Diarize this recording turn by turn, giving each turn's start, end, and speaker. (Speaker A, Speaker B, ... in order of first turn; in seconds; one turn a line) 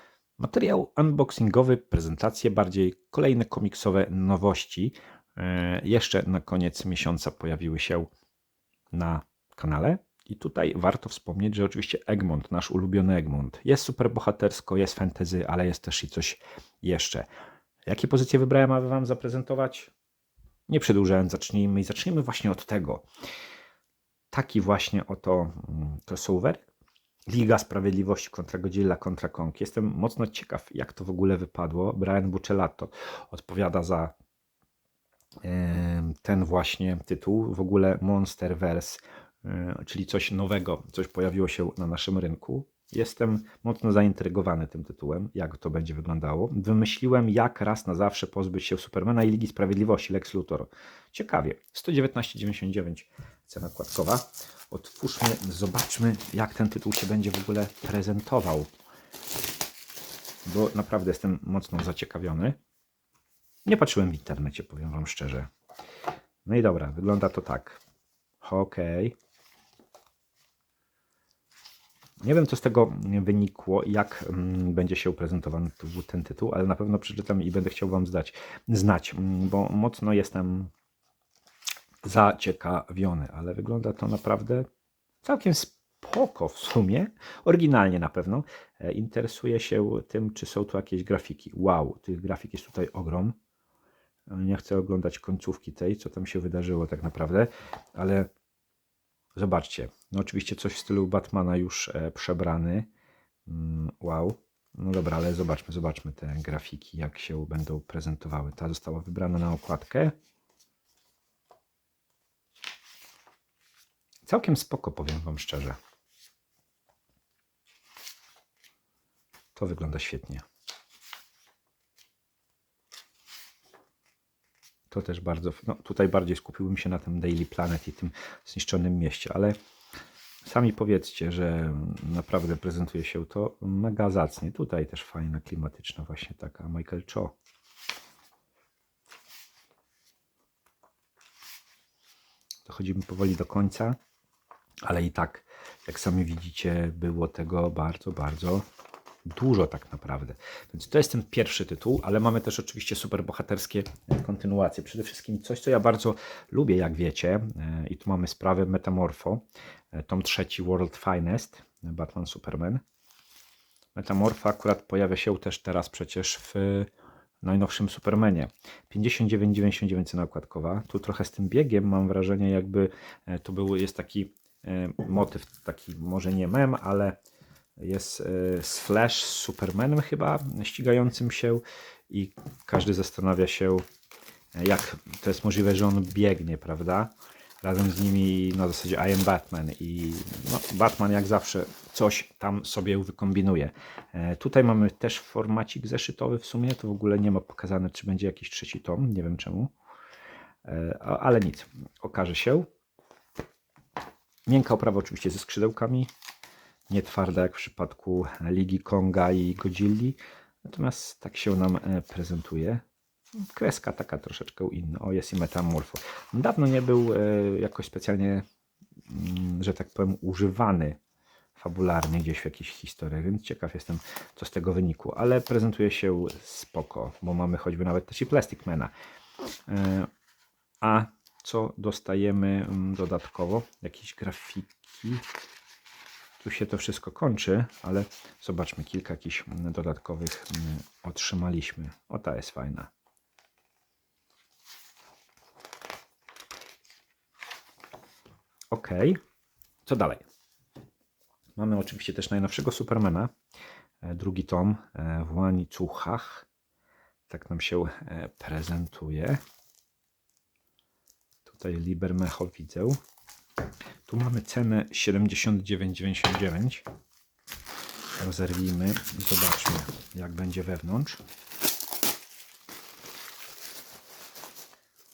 Speaker A: 0.4-8.1
Speaker A: 8.9-17.3
Speaker A: 17.9-19.9
Speaker A: 20.7-23.1
Speaker A: 24.3-26.7
Speaker A: 27.3-34.1
Speaker A: 35.4-58.7
Speaker A: 60.5-62.6
Speaker A: 63.6-65.5
Speaker A: 66.5-67.8
Speaker A: 68.4-69.2
Speaker A: 72.2-80.7
Speaker A: 82.0-84.7
Speaker A: 85.2-93.4
Speaker A: 94.3-98.3
Speaker A: 99.3-102.9
Speaker A: 103.5-110.1
Speaker A: 114.3-115.8
Speaker A: 119.5-120.4
Speaker A: 124.9-129.6
Speaker A: 130.4-137.4
Speaker A: 142.7-144.0
Speaker A: 144.8-148.7
Speaker A: 149.3-162.8
Speaker A: 163.9-166.9
Speaker A: 167.4-177.2
Speaker A: 177.8-183.8
Speaker A: 184.6-199.7
Speaker A: 200.7-202.7
Speaker A: 204.5-206.1
Speaker A: 206.9-212.8
Speaker A: 213.4-218.4
Speaker A: 219.1-221.0
Speaker A: 221.6-228.9
Speaker A: 229.7-230.1
Speaker A: 230.8-235.3
Speaker A: 236.4-242.9
Speaker A: 248.7-249.2
Speaker A: 249.8-250.2
Speaker A: 251.6-253.3
Speaker A: 254.0-256.5
Speaker A: 257.3-259.4
Speaker A: 261.4-263.0
Speaker A: 264.1-266.8
Speaker A: 268.2-271.2